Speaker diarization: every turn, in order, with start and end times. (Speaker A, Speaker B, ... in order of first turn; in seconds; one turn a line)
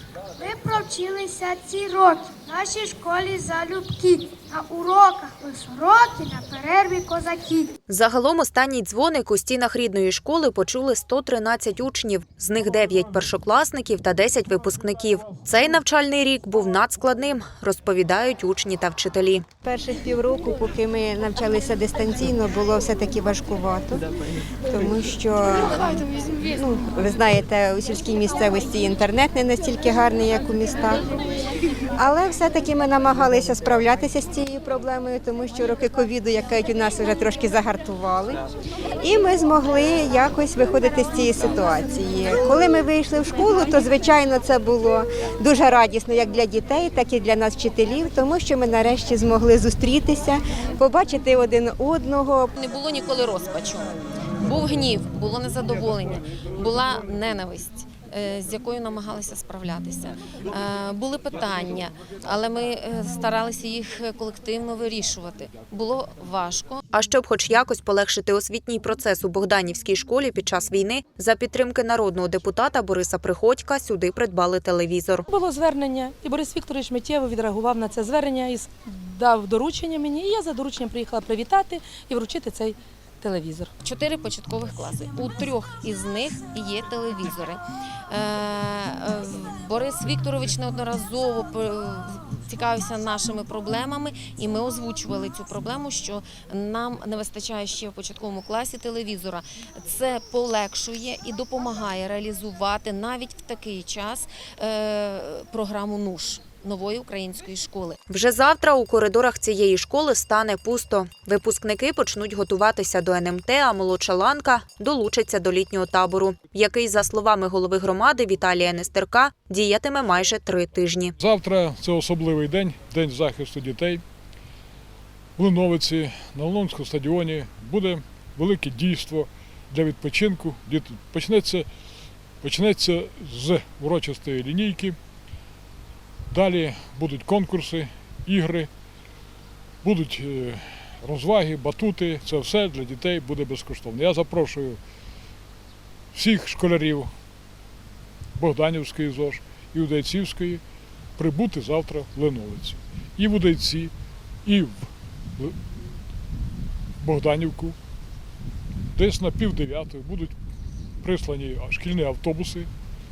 Speaker A: 0.4-7.8
Speaker B: 7.9-19.4
Speaker C: 19.6-24.0
Speaker C: 24.7-25.9
Speaker C: 26.5-31.2
Speaker C: 32.0-38.4
Speaker C: 39.0-52.5
Speaker D: 52.6-66.8
Speaker B: 66.9-75.2
Speaker E: 75.3-83.7
Speaker D: 83.8-108.0
Speaker B: 108.1-121.1
Speaker F: 121.2-124.0
Speaker F: 125.4-131.7
Speaker F: 132.4-135.0
Speaker F: 136.3-138.7
Speaker F: 139.8-144.8
Speaker F: 146.1-147.1
Speaker F: 148.4-150.6
Speaker F: 151.2-153.9
Speaker F: 154.4-155.5
Speaker F: 157.0-157.8
Speaker F: 158.9-160.3
Speaker F: 161.0-162.7